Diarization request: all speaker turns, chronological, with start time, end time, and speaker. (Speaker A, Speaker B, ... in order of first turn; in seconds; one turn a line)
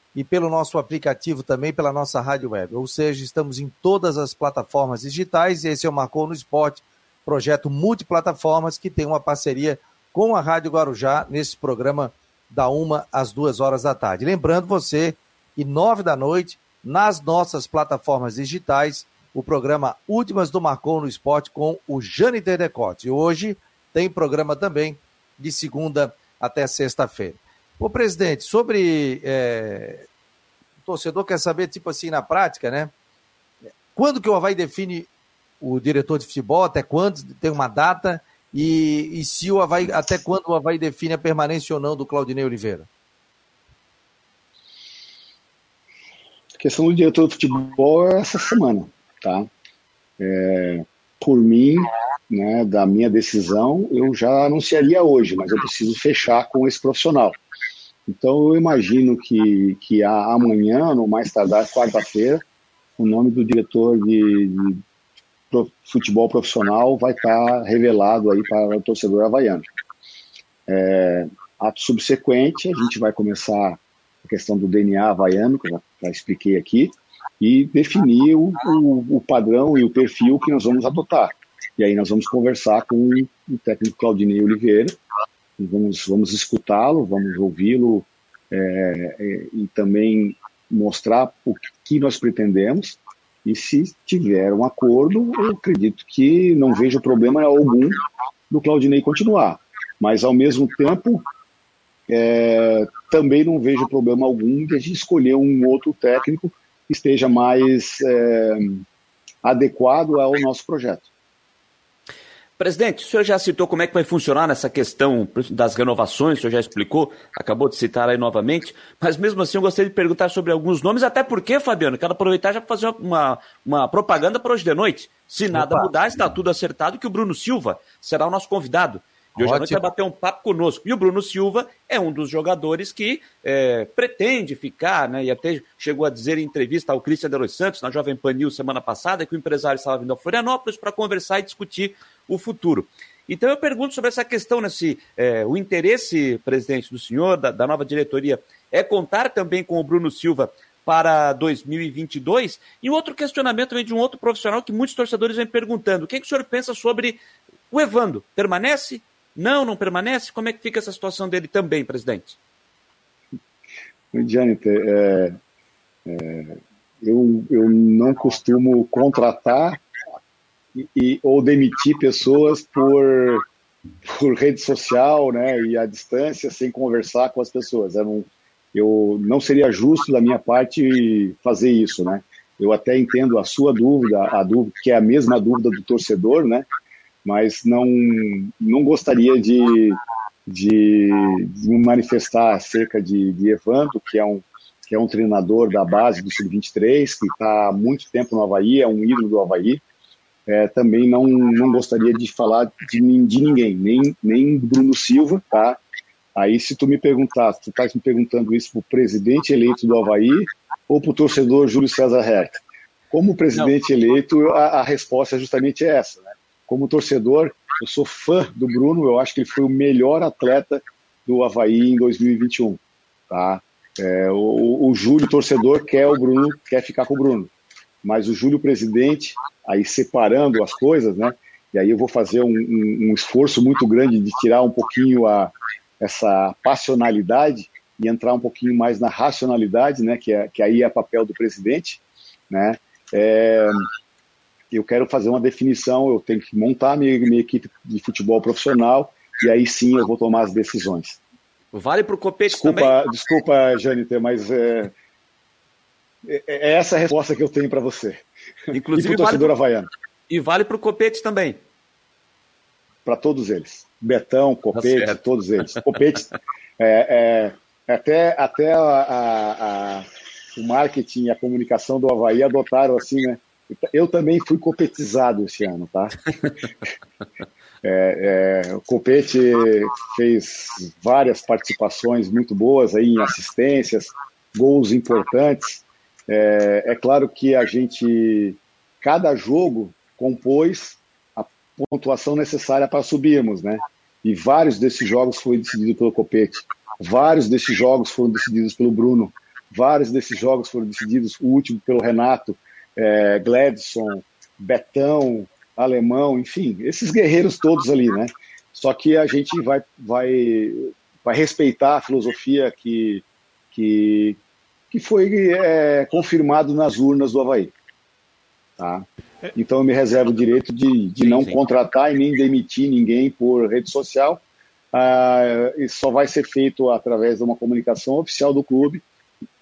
Speaker A: 0.1-30.1
Speaker A: 30.9-32.9
Speaker A: 33.9-35.1
Speaker A: 35.6-42.9
Speaker B: 46.6-49.5
Speaker B: 50.2-57.4
Speaker B: 58.1-62.4
Speaker B: 63.0-64.8
Speaker B: 65.5-69.7
Speaker B: 70.7-85.0
Speaker B: 85.6-101.2
Speaker B: 102.1-108.8
Speaker B: 109.4-111.1
Speaker C: 112.6-157.2
Speaker A: 125.5-125.9
Speaker A: 129.4-129.8
Speaker C: 157.7-162.4
Speaker B: 164.1-165.4
Speaker B: 166.1-169.8
Speaker B: 170.8-173.5
Speaker B: 174.0-186.7
Speaker B: 187.2-199.8
Speaker B: 200.5-205.8
Speaker B: 206.3-227.5
Speaker B: 228.0-243.9
Speaker B: 244.7-251.2
Speaker C: 251.7-253.0
Speaker B: 252.5-254.9
Speaker B: 256.2-259.9
Speaker C: 258.7-259.5
Speaker C: 260.3-261.6
Speaker B: 263.1-276.2
Speaker C: 264.8-265.2
Speaker B: 277.8-314.4
Speaker B: 314.9-317.7
Speaker B: 318.8-324.4
Speaker C: 321.2-321.6
Speaker B: 324.9-329.0